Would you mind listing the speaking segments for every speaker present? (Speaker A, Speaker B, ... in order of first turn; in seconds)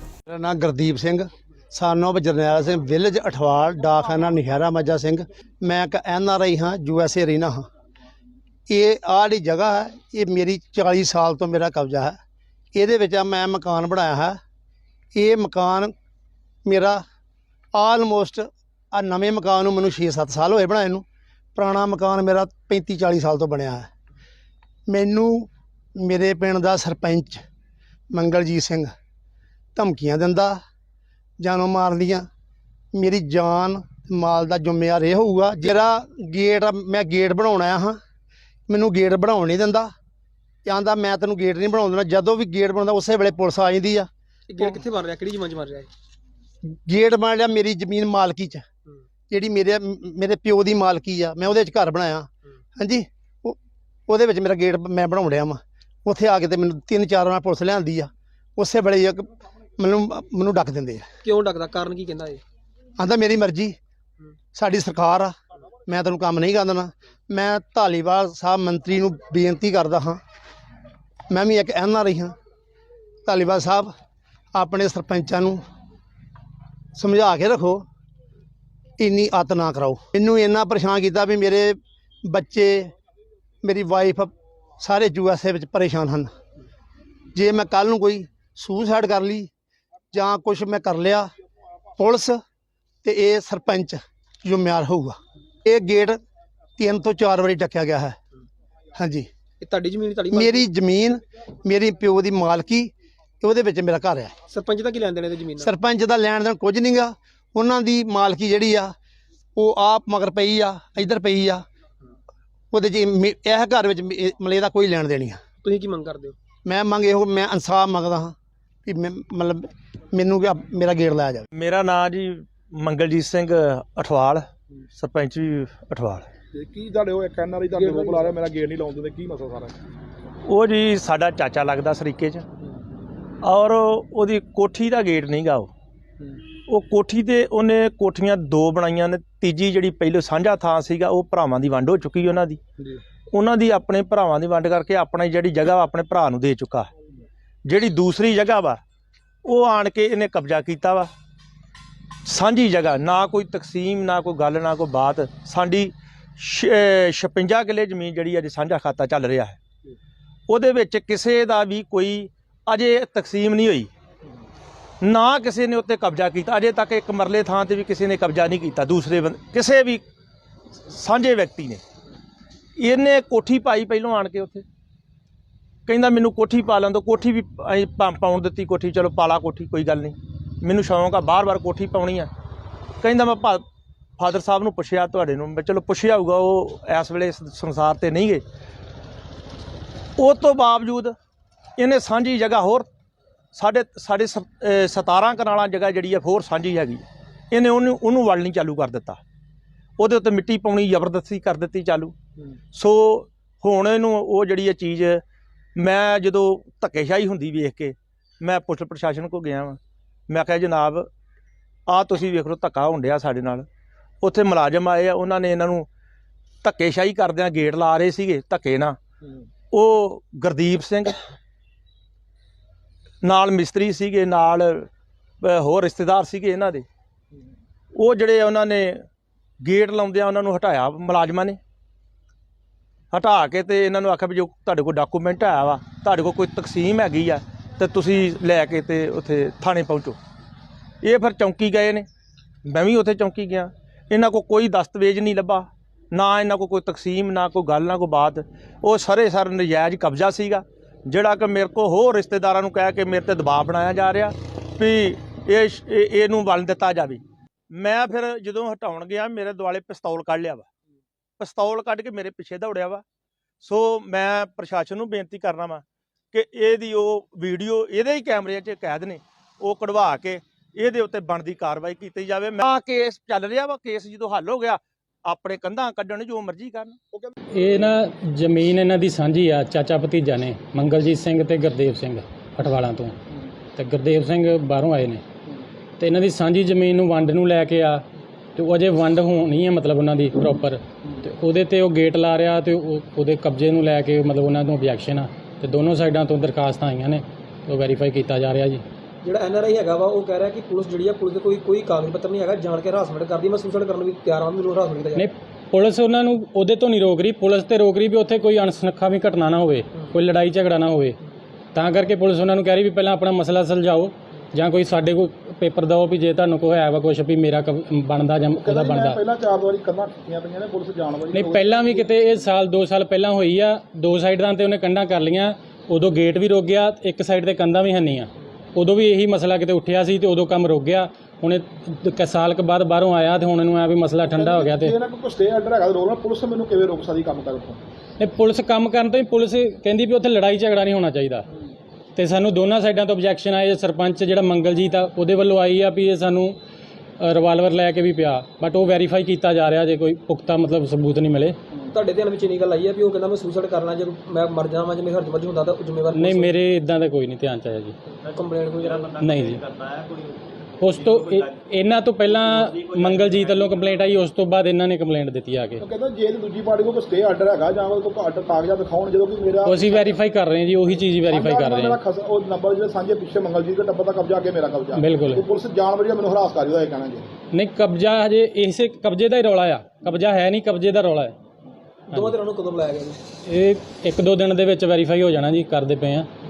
Speaker A: 0.3-7.6, 8.7-12.2, 12.7-14.4, 15.1-15.9, 16.6-17.0, 17.7-21.0, 21.6-23.9, 24.9-27.4, 28.1-28.9, 29.7-30.6, 31.4-32.2, 32.9-38.0, 38.7-39.9, 40.6-44.1, 46.6-48.6, 49.3-53.6, 54.1-61.0, 63.0-63.8, 64.5-65.3, 65.8-70.2, 71.3-72.3, 73.2-73.9, 74.5-75.6, 76.9-77.8, 79.0-82.9, 83.6-86.3, 87.3-89.5, 90.1-91.3, 92.0-92.4, 93.0-96.2, 96.8-98.2, 98.9-99.3, 100.3-102.9, 103.4-104.3, 105.6-108.9, 109.5-111.6, 112.7-115.4, 116.6-118.3, 118.8-121.5
Speaker B: 44.5-45.9, 61.2-62.4, 99.6-100.7, 104.5-105.7, 115.6-116.3, 127.7-128.3, 299.2-305.3, 351.9-356.6, 358.2-359.2, 382.1-383.2
Speaker C: 121.5-126.3, 130.4-132.4, 133.4-135.7, 136.7-142.6, 143.3-146.9, 147.6-148.8, 149.4-151.1, 152.2-159.6, 160.5-163.9, 165.0-170.0, 170.8-171.8, 172.8-174.6, 175.9-182.3, 183.0-183.6, 184.2-188.4, 190.2-191.1, 191.8-192.9, 193.5-199.2, 200.0-202.2, 202.7-205.2, 205.8-211.1, 211.9-213.7, 214.2-215.9, 216.6-219.0, 219.7-221.2, 223.2-224.9, 225.4-226.8, 227.9-229.1, 229.6-231.6, 233.1-240.2, 241.0-242.1, 242.6-260.7, 261.4-263.0, 263.6-276.9
Speaker D: 126.5-129.8, 219.2-219.5, 277.1-277.9, 318.5-322.1, 334.2-337.8, 365.8-370.2, 371.2-377.3
Speaker E: 277.5-283.1, 283.7-285.2, 286.0-288.0, 288.6-298.8, 305.1-311.2, 311.7-319.2, 321.3-334.9, 338.2-341.5, 342.1-346.6, 347.2-351.6, 356.1-357.9, 359.1-359.6, 360.8-365.8, 369.6-372.0, 375.0-375.4, 377.5-381.4, 382.1-382.4, 383.4-386.3